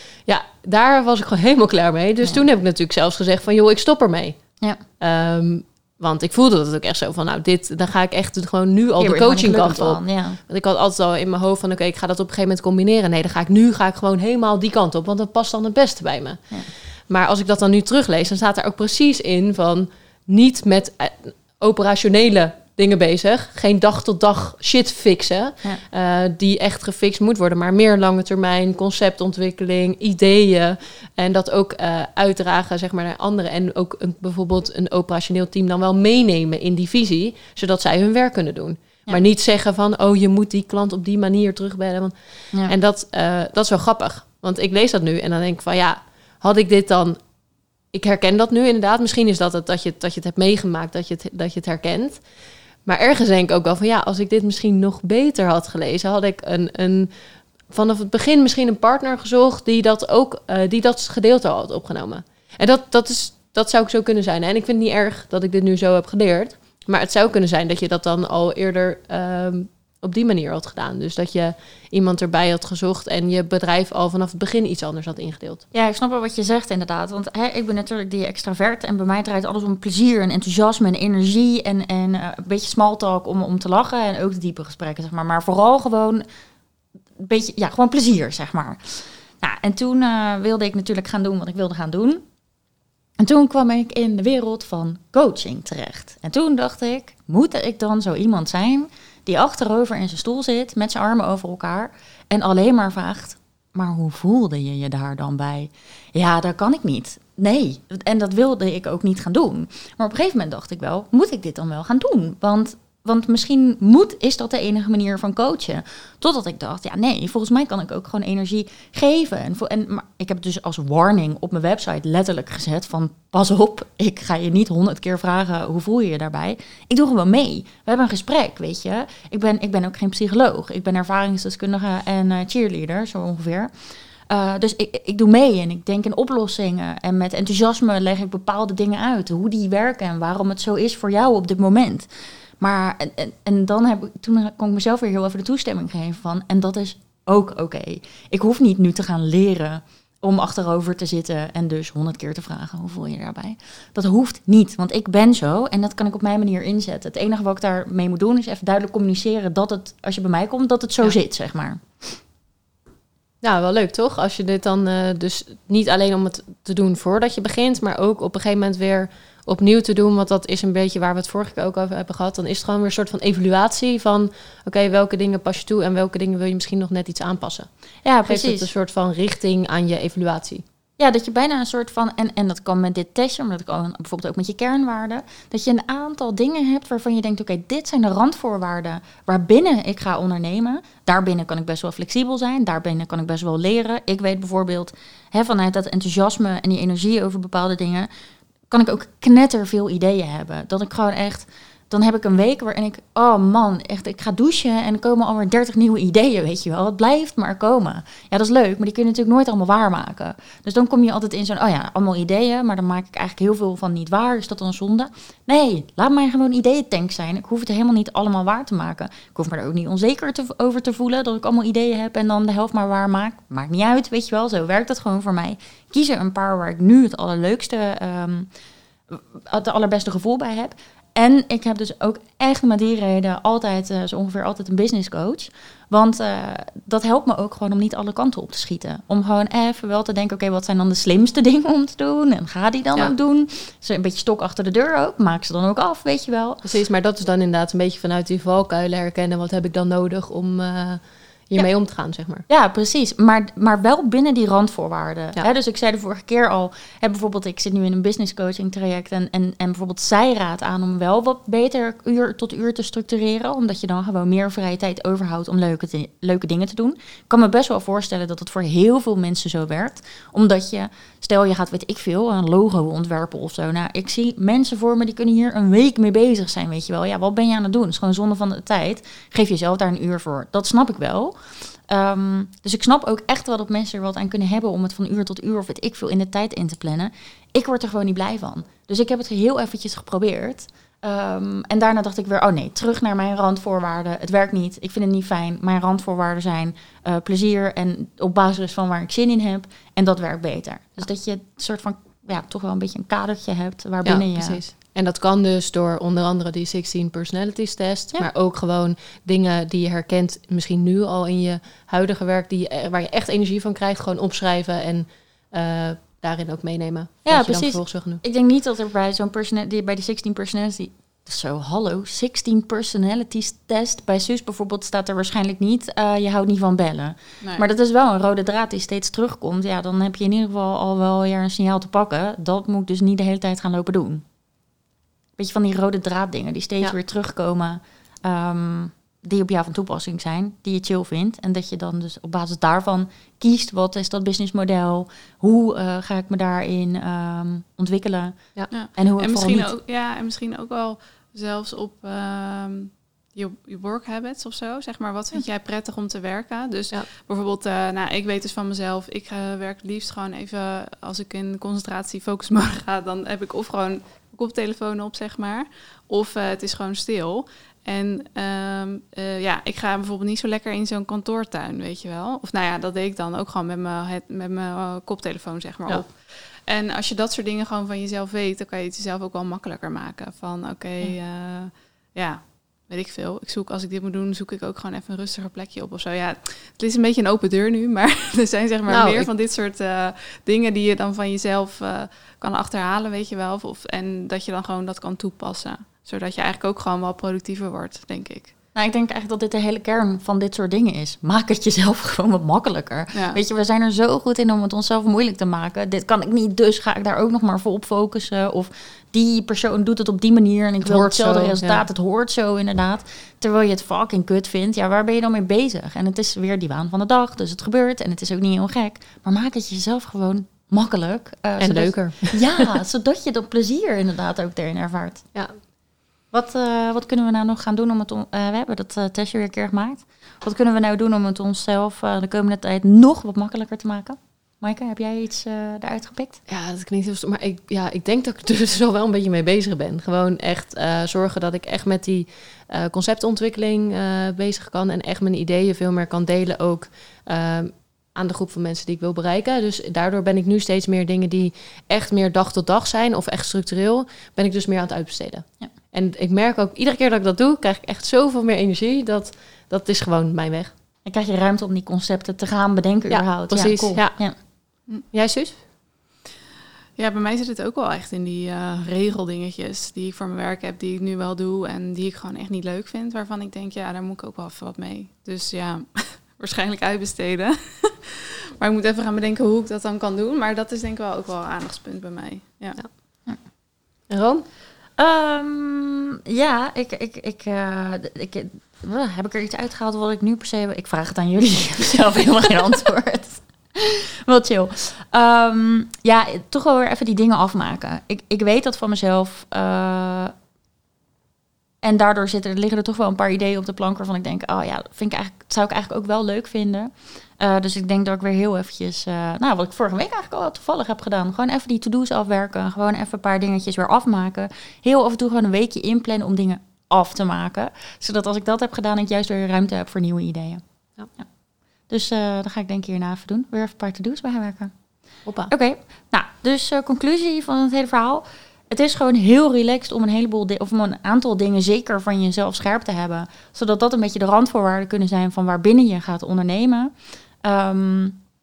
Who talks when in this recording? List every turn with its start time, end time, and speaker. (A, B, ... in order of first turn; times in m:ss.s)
0:00.3-0:04.4 A
0:05.0-0:16.5 A
0:09.0-0:10.4 B
0:17.1-0:47.2 A
0:47.9-0:52.2 A
0:52.9-0:57.1 A
0:57.7-1:15.6 A
1:15.7-1:26.2 B
1:27.2-1:32.2 B
1:33.2-2:13.7 B
2:14.3-2:22.1 B
2:22.6-2:42.2 B
2:43.4-2:57.7 A
2:58.0-2:58.7 B
2:58.2-3:00.6 A
3:01.0-3:18.1 B
3:18.7-3:48.5 B
3:49.1-4:06.6 B
4:06.6-4:12.5 A
4:12.5-5:04.6 B
5:04.0-5:18.2 A
5:17.3-5:34.2 B
5:35.4-5:49.7 B
5:48.7-6:38.5 C
6:28.9-6:29.3 A
6:38.8-7:05.3 B
6:43.1-6:43.4 C
6:50.8-6:51.8 A
7:01.6-7:02.7 A
7:06.3-7:16.4 B
7:16.5-7:40.7 A
7:41.1-7:44.4 B
7:43.1-7:44.2 A
7:45.1-7:45.6 A
7:47.0-8:02.8 C
8:04.1-8:04.4 A
8:05.0-8:20.3 B
8:21.8-8:40.6 B
8:41.9-8:44.7 B
8:45.3-8:45.5 A
8:45.5-8:56.9 B
8:57.4-8:58.2 B